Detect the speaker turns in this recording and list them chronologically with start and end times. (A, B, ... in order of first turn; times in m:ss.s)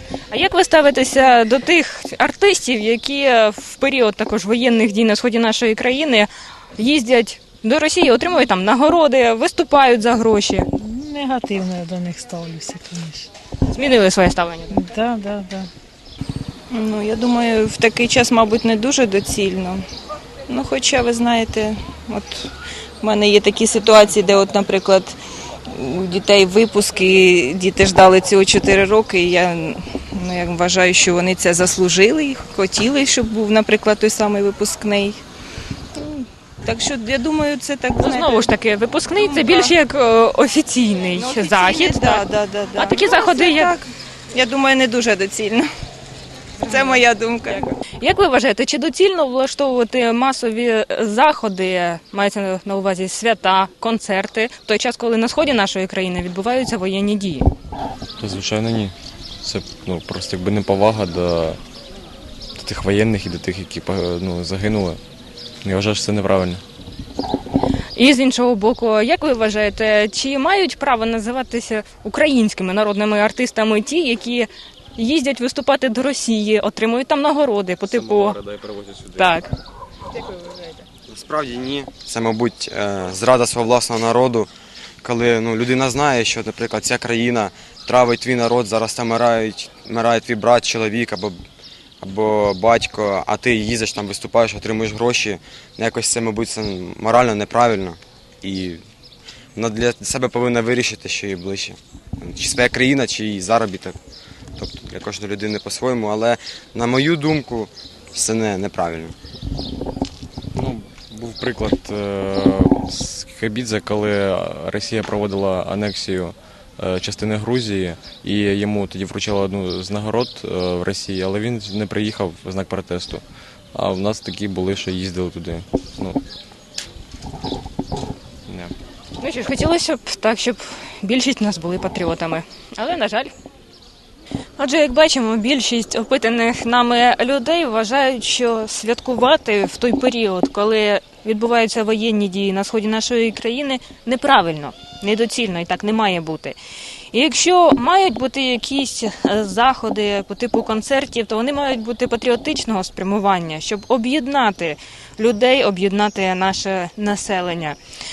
0:00.3-0:10.6 A
0:10.8-0:13.3 B
0:13.7-0:14.8 A
0:14.7-0:15.7 B
0:16.7-0:19.8 C
0:20.5-0:22.4 C
0:23.0-0:25.2 C
0:25.8-0:35.2 C
0:36.0-0:38.3 C
0:38.0-0:43.8 A
0:39.2-0:39.7 C
0:41.2-0:45.7 C
0:46.7-0:47.0 A
0:46.7-0:47.6 C
0:48.0-0:57.5 A
0:58.2-1:01.6 D
1:02.6-1:05.0 D
1:05.6-1:06.6 D
1:07.9-1:18.4 A
1:19.1-1:19.5 A
1:21.1-1:24.5 E
1:25.0-1:31.4 E
1:32.0-1:38.8 E
1:39.6-1:44.0 E
1:44.6-1:49.1 E
1:50.5-2:03.2 D
2:03.7-2:06.2 D
2:08.5-2:08.7 D
2:09.2-2:13.3 A
2:14.6-2:26.6 A
2:27.1-2:37.8 A